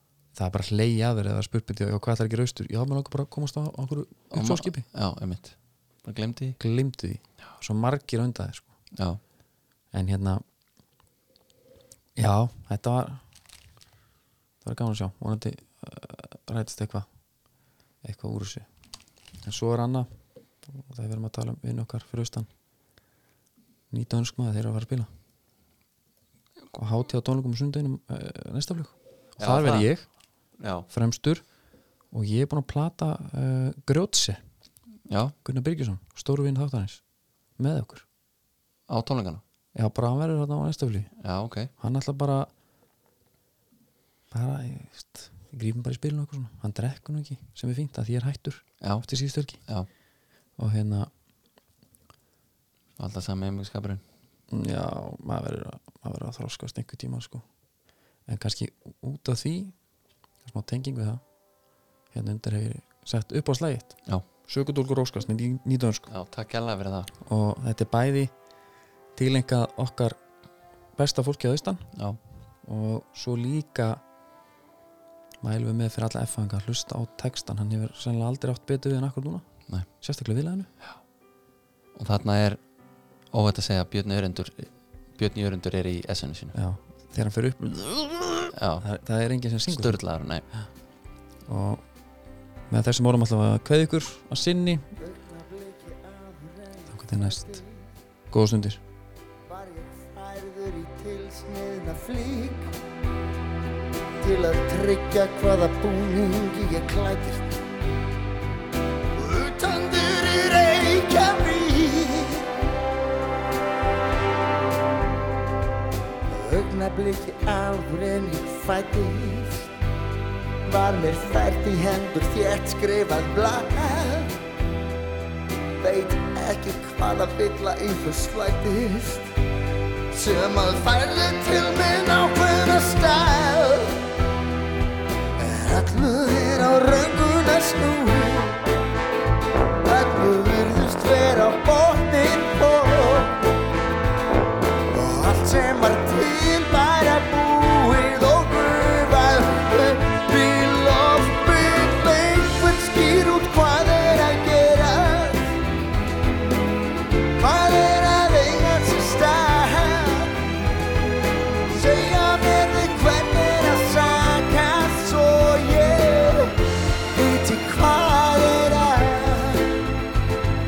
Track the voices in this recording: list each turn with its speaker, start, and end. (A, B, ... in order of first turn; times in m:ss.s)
0:00.3-0:04.8 A
0:04.3-0:06.6 B
0:06.6-0:08.7 A
0:09.9-0:10.4 A
0:12.2-0:13.2 A
0:14.6-0:17.1 A
0:18.0-0:18.6 A
0:19.4-0:20.1 A
0:20.6-0:22.5 A
0:23.9-0:25.1 A
0:26.7-0:30.0 A
0:29.4-0:29.9 B
0:30.6-0:30.9 B
0:30.9-0:31.4 A
0:32.1-0:34.4 A
0:35.1-0:35.3 B
0:35.4-0:37.0 A
0:37.6-0:38.0 A
0:38.9-0:39.4 B
0:39.7-0:41.1 A
0:41.2-0:41.7 B
0:41.8-0:42.5 A
0:44.3-0:49.6 A
0:48.8-0:49.1 B
0:50.6-0:51.1 A
0:53.0-0:54.0 B
0:54.5-0:57.4 A
0:58.3-0:59.7 A
1:00.4-1:01.2 A
1:02.1-1:06.1 A
1:06.1-1:07.1 B
1:07.2-1:08.3 A
1:09.1-1:10.2 A
1:11.0-1:11.9 A
1:12.6-1:14.0 A
1:15.4-1:19.4 A
1:20.0-1:20.7 A
1:21.9-1:22.6 B
1:23.3-1:26.6 B
1:26.5-1:30.0 A
1:28.5-1:28.8 B
1:29.6-1:30.4 B
1:31.5-1:31.8 A
1:32.7-1:34.8 A
1:35.0-1:37.9 C
1:36.9-1:37.6 A
1:38.3-1:38.8 A
1:39.5-1:42.8 C
1:44.2-1:47.6 C
1:49.2-1:52.5 C
1:56.3-1:59.7 C
2:00.6-2:04.4 C
2:05.8-2:09.3 C
2:10.1-2:14.0 C
2:15.4-2:18.6 C
2:19.8-2:23.4 C
2:24.9-2:35.5 C
2:37.4-2:40.3 C
2:41.7-2:46.6 C
2:47.1-2:49.7 C